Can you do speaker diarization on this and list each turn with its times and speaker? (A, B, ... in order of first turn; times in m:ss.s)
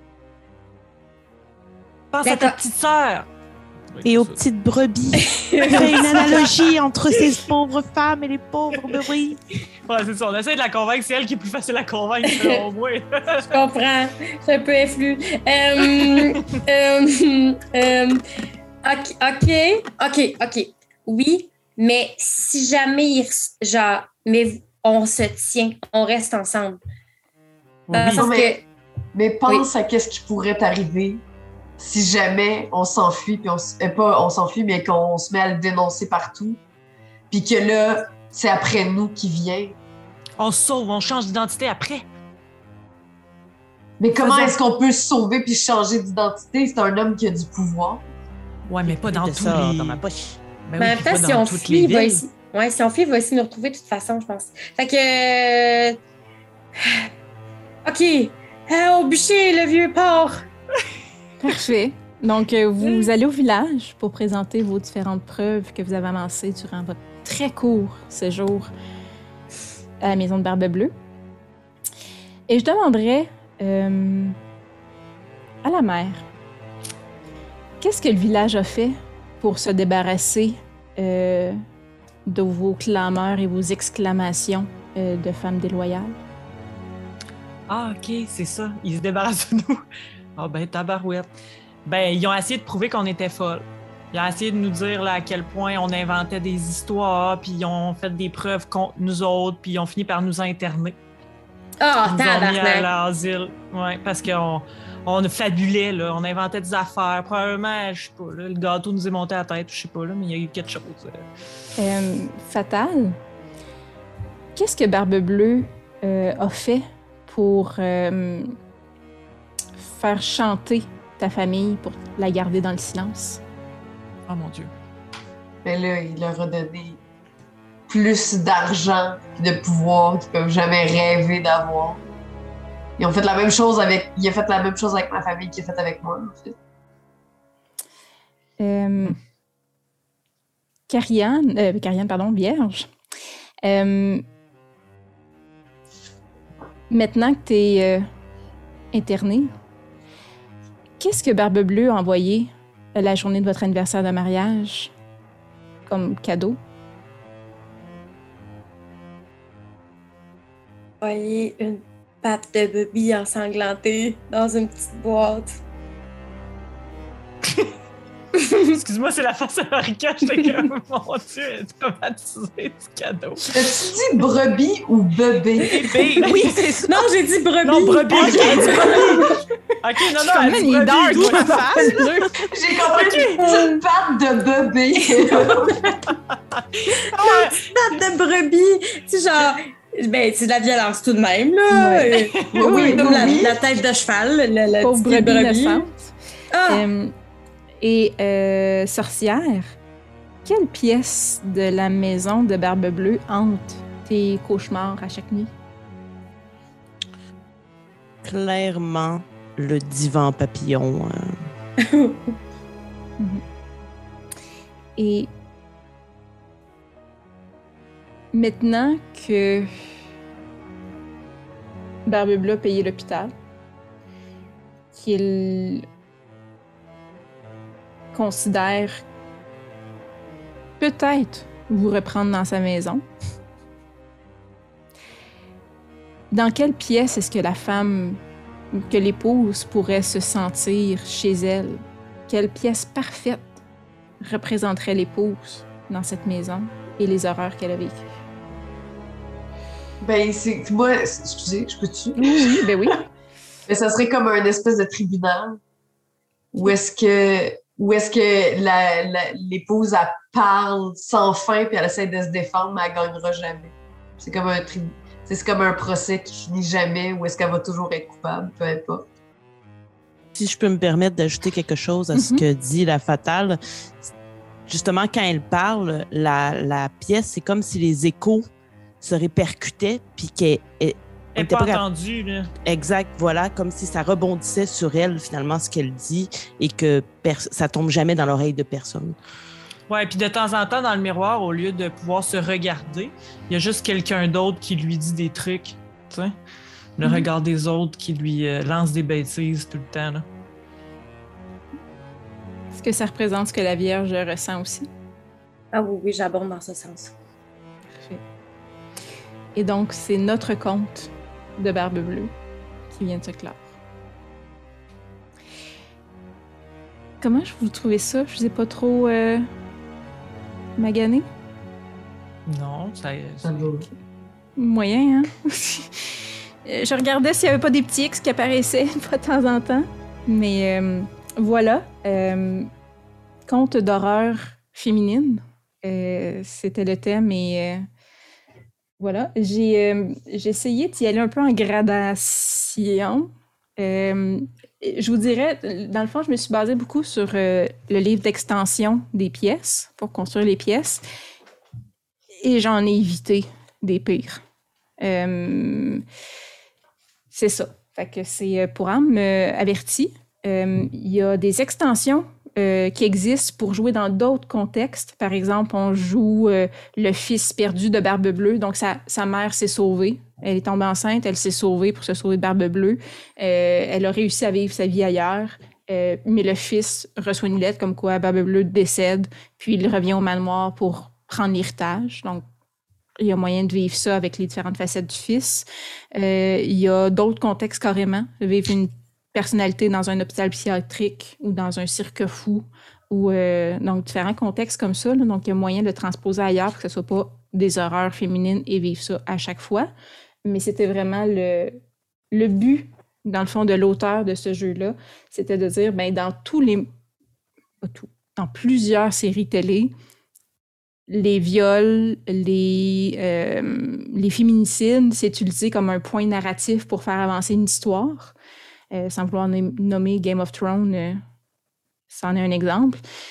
0:02.1-0:03.3 A
0:02.2-0:02.6 B
0:03.9-0:04.4 A
0:04.0-0:09.4 C
0:05.1-0:06.4 B
0:05.6-0:06.6 A
0:09.9-0:13.5 A
0:12.3-0:12.6 B
0:13.4-0:18.2 B
0:15.9-0:16.6 A
0:18.8-0:26.8 B
0:27.9-0:28.2 A
0:27.9-0:28.6 B
0:28.1-0:28.6 D
0:29.1-0:31.2 D
0:31.8-0:36.6 D
0:37.3-0:39.8 D
0:40.4-0:42.0 A
0:44.0-0:48.0 D
0:48.7-0:50.0 A
0:48.8-0:50.4 C
0:50.6-0:52.2 A
0:50.8-0:56.0 B
0:56.8-0:57.1 B
0:57.8-1:00.4 B
1:01.4-1:08.7 E
1:10.0-1:10.9 E
1:12.5-1:14.4 E
1:15.6-1:16.2 E
1:17.8-1:21.6 E
1:22.3-1:26.2 E
1:27.7-1:29.8 A
1:30.4-1:31.3 A
1:31.8-1:41.0 A
1:41.8-1:42.9 B
1:42.0-1:51.2 A
1:51.8-1:53.2 E
1:54.5-1:58.5 E
1:59.8-2:03.4 E
2:04.3-2:04.7 A
2:05.6-2:07.0 D
2:07.9-2:12.0 D
2:13.0-2:16.6 D
2:18.6-2:19.2 E
2:20.9-2:22.9 E
2:23.6-2:24.2 E
2:26.9-2:28.1 E
2:28.9-2:29.5 E
2:31.0-2:34.9 E
2:35.9-2:36.6 E
2:41.0-2:45.6 B
2:48.4-2:48.8 B
2:48.6-2:53.5 A
2:53.5-2:55.8 D
2:55.7-2:56.4 A
2:55.8-2:59.4 B
2:56.2-2:57.0 E
2:57.6-2:59.3 A
2:58.3-2:59.1 D
2:59.8-3:03.4 A
3:00.2-3:02.3 E
3:01.1-3:01.9 C
3:02.4-3:05.9 D
3:03.4-3:03.7 B
3:06.8-3:07.8 A
3:07.0-3:15.9 B
3:11.7-3:13.1 E
3:12.4-3:13.0 A
3:12.5-3:13.6 D
3:14.8-3:16.1 E
3:16.5-3:16.9 B
3:16.6-3:17.1 E
3:17.8-3:19.7 E
3:20.4-3:25.5 E
3:28.2-3:31.4 C
3:31.8-3:32.2 B
3:35.0-3:35.3 E
3:38.3-3:39.9 E
3:42.0-3:43.3 E
3:44.9-3:45.8 E
3:48.1-3:49.0 E
3:50.8-3:53.0 E
3:56.3-3:58.2 E
3:58.7-4:03.6 E
4:04.2-4:08.0 E
4:10.0-4:12.3 D
4:12.2-4:13.1 E
4:13.7-4:15.6 D
4:16.5-4:29.0 D
4:30.3-4:34.0 C
4:32.1-4:32.4 E
4:34.7-4:38.5 C
4:39.0-4:41.8 C
4:41.3-4:42.5 A
4:42.6-4:49.2 C
4:49.9-4:56.3 A
4:57.0-5:00.2 A
5:02.7-5:04.9 E
5:05.7-5:07.1 B
5:09.6-5:12.3 E
5:12.9-5:13.7 E
5:17.2-5:19.5 E
5:20.8-5:21.3 E
5:22.5-5:23.5 A
5:23.4-5:23.9 D
5:24.6-5:32.7 E
5:33.5-5:37.9 E
5:39.0-5:51.0 E
5:52.4-5:54.4 E
5:55.0-5:56.0 E
5:57.3-6:22.4 E
6:23.2-6:39.9 E
6:40.4-6:41.8 E
6:42.3-6:46.9 E
6:47.8-6:49.9 E
6:51.1-6:58.3 E
6:58.9-7:01.2 E
7:02.1-7:03.0 E